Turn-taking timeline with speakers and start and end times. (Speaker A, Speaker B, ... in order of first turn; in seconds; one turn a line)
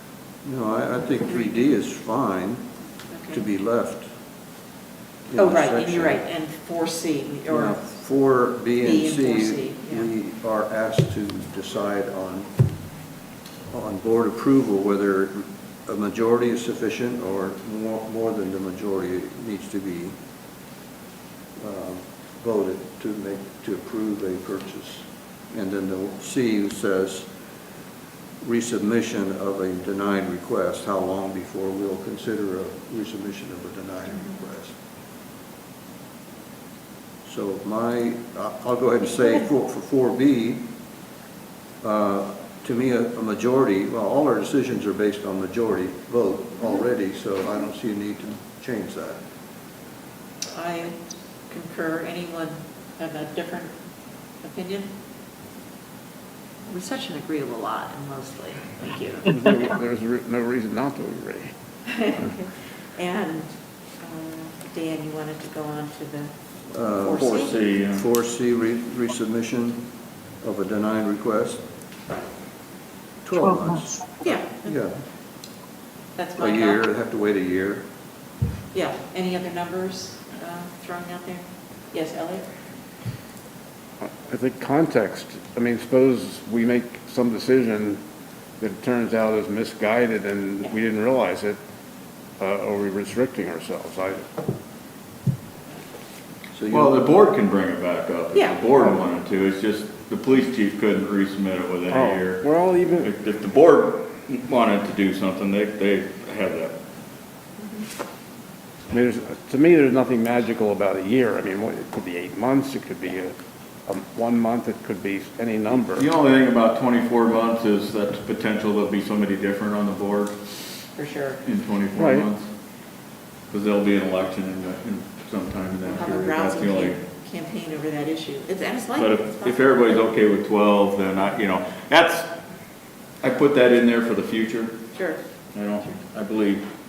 Speaker A: 0.4-2.6
Speaker B: 1.3-1.6
Speaker B: 3.1-3.4
Speaker A: 3.3-4.1
Speaker A: 5.3-6.2
Speaker B: 5.4-7.8
Speaker A: 7.5-12.5
Speaker B: 8.8-10.1
Speaker A: 13.7-20.1
Speaker A: 21.6-27.3
Speaker A: 28.4-34.7
Speaker A: 37.2-40.6
Speaker A: 41.8-49.2
Speaker B: 50.5-53.7
Speaker B: 54.4-54.9
Speaker B: 56.7-59.6
Speaker C: 59.3-61.5
Speaker B: 61.9-63.5
Speaker B: 64.0-66.3
Speaker A: 66.7-69.8
Speaker B: 67.0-67.6
Speaker D: 67.2-68.0
Speaker A: 70.4-71.6
Speaker A: 73.2-75.0
Speaker B: 74.2-74.7
Speaker B: 76.2-76.8
Speaker A: 76.4-77.8
Speaker B: 78.7-82.4
Speaker C: 84.0-88.0
Speaker C: 88.6-91.6
Speaker C: 92.4-94.2
Speaker A: 96.5-97.0
Speaker D: 96.7-102.4
Speaker C: 101.9-103.1
Speaker D: 103.0-106.7
Speaker C: 108.9-113.3
Speaker C: 113.9-116.1
Speaker D: 116.0-120.3
Speaker B: 121.0-121.4
Speaker D: 121.5-122.4
Speaker C: 122.0-122.3
Speaker D: 123.5-127.0
Speaker B: 125.8-129.7
Speaker D: 129.0-132.2
Speaker D: 133.2-134.7
Speaker B: 134.9-135.2
Speaker D: 135.5-136.6